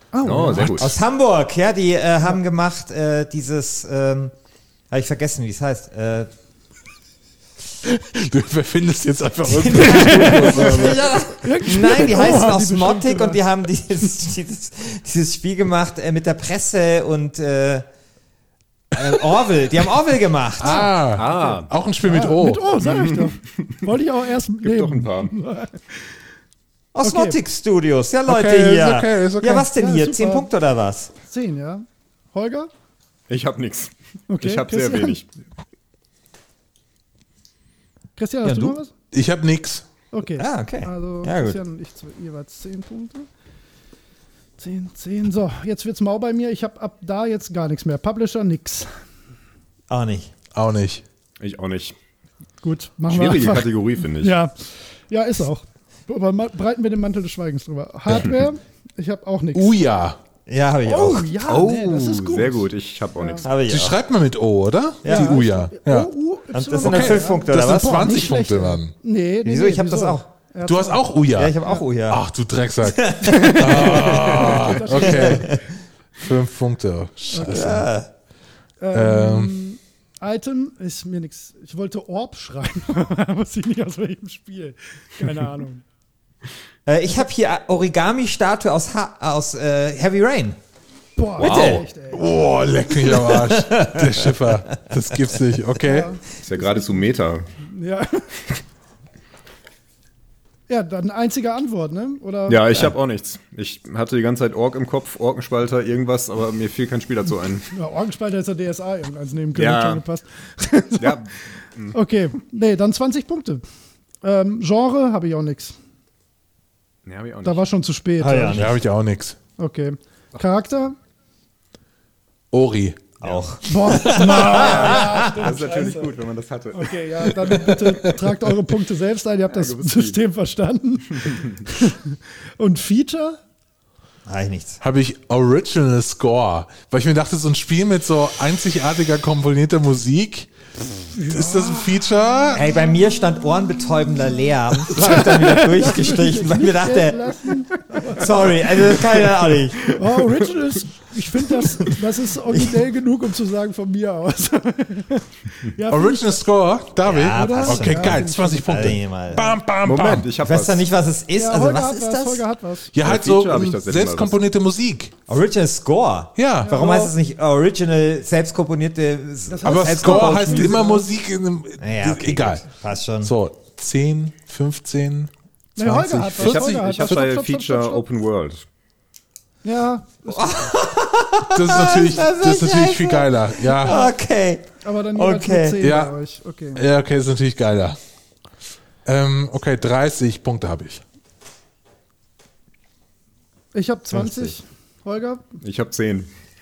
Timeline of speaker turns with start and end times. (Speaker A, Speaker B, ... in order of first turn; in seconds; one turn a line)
Speaker A: 0.1-0.8
Speaker B: 0.2-0.9
Speaker C: 0.5-4.3
Speaker C: 4.9-6.3
Speaker D: 7.8-11.2
Speaker C: 9.5-17.8
Speaker A: 9.8-13.4
Speaker C: 18.9-20.9
Speaker D: 20.6-22.7
Speaker B: 21.1-21.7
Speaker A: 22.0-25.9
Speaker B: 22.8-23.8
Speaker B: 24.6-25.3
Speaker C: 26.9-31.1
Speaker A: 27.0-27.4
Speaker D: 28.2-29.7
Speaker A: 29.7-30.5
Speaker A: 31.2-32.7
Speaker B: 33.3-35.3
Speaker A: 34.3-35.2
Speaker A: 38.2-38.9
Speaker C: 38.4-38.8
Speaker D: 39.1-39.8
Speaker A: 40.1-43.3
Speaker C: 40.4-41.6
Speaker A: 44.6-48.9
Speaker C: 49.9-50.3
Speaker D: 50.5-51.0
Speaker B: 51.4-51.9
Speaker A: 52.6-59.7
Speaker B: 53.1-54.4
Speaker D: 59.5-60.2
Speaker C: 60.5-61.4
Speaker A: 60.8-63.4
Speaker B: 61.5-63.5
Speaker C: 63.4-64.0
Speaker D: 63.7-66.1
Speaker C: 65.0-65.4
Speaker A: 65.0-71.8
Speaker C: 66.5-68.2
Speaker D: 66.8-68.9
Speaker C: 69.4-70.2
Speaker D: 70.7-75.6
Speaker C: 71.3-72.2
Speaker C: 72.8-75.7
Speaker A: 73.4-75.5
Speaker D: 76.2-77.9
Speaker A: 77.3-77.8
Speaker C: 77.4-78.1
Speaker A: 78.8-85.8
Speaker D: 78.9-79.5
Speaker C: 86.9-90.6
Speaker A: 91.2-92.3
Speaker C: 91.4-91.8
Speaker B: 91.4-91.8
Speaker D: 92.1-96.1
Speaker C: 93.0-94.3
Speaker A: 95.8-96.2
Speaker B: 96.4-97.5
Speaker A: 97.6-98.4
Speaker A: 100.7-102.9
Speaker B: 102.5-107.7
Speaker A: 107.7-111.2
Speaker B: 109.5-110.0
Speaker B: 111.0-111.9
Speaker A: 111.9-113.6
Speaker A: 114.2-115.8
Speaker B: 117.0-117.6
Speaker A: 117.4-118.7
Speaker C: 118.2-118.7
Speaker D: 118.5-119.4
Speaker A: 119.6-121.0
Speaker D: 122.5-123.1
Speaker C: 123.2-125.4
Speaker B: 123.2-123.5
Speaker A: 123.6-126.2
Speaker B: 124.3-127.8
Speaker A: 126.7-133.4
Speaker B: 129.5-130.2
Speaker B: 131.1-131.6
Speaker C: 134.2-134.8
Speaker D: 134.8-140.5
Speaker A: 141.1-142.0
Speaker D: 141.2-142.7
Speaker C: 142.5-147.3
Speaker A: 144.9-148.9
Speaker C: 148.2-149.9
Speaker A: 149.8-156.4
Speaker D: 155.9-160.3
Speaker C: 157.0-159.5
Speaker A: 157.3-159.0
Speaker B: 159.8-160.9
Speaker C: 160.4-162.4
Speaker A: 161.4-162.9
Speaker D: 162.9-165.1
Speaker B: 163.0-164.4
Speaker C: 165.3-170.8
Speaker D: 166.4-166.8
Speaker A: 166.6-167.1
Speaker A: 169.5-171.1
Speaker D: 169.6-172.6
Speaker C: 171.8-173.3
Speaker D: 173.2-177.2
Speaker A: 175.8-178.0
Speaker B: 176.4-178.6
Speaker A: 179.6-180.7
Speaker C: 180.3-185.8
Speaker D: 181.5-184.1
Speaker A: 183.8-184.1
Speaker A: 184.8-186.8
Speaker D: 185.8-186.1
Speaker D: 186.7-188.0
Speaker D: 189.0-191.0
Speaker A: 193.7-195.4
Speaker C: 194.2-194.5
Speaker B: 195.6-196.3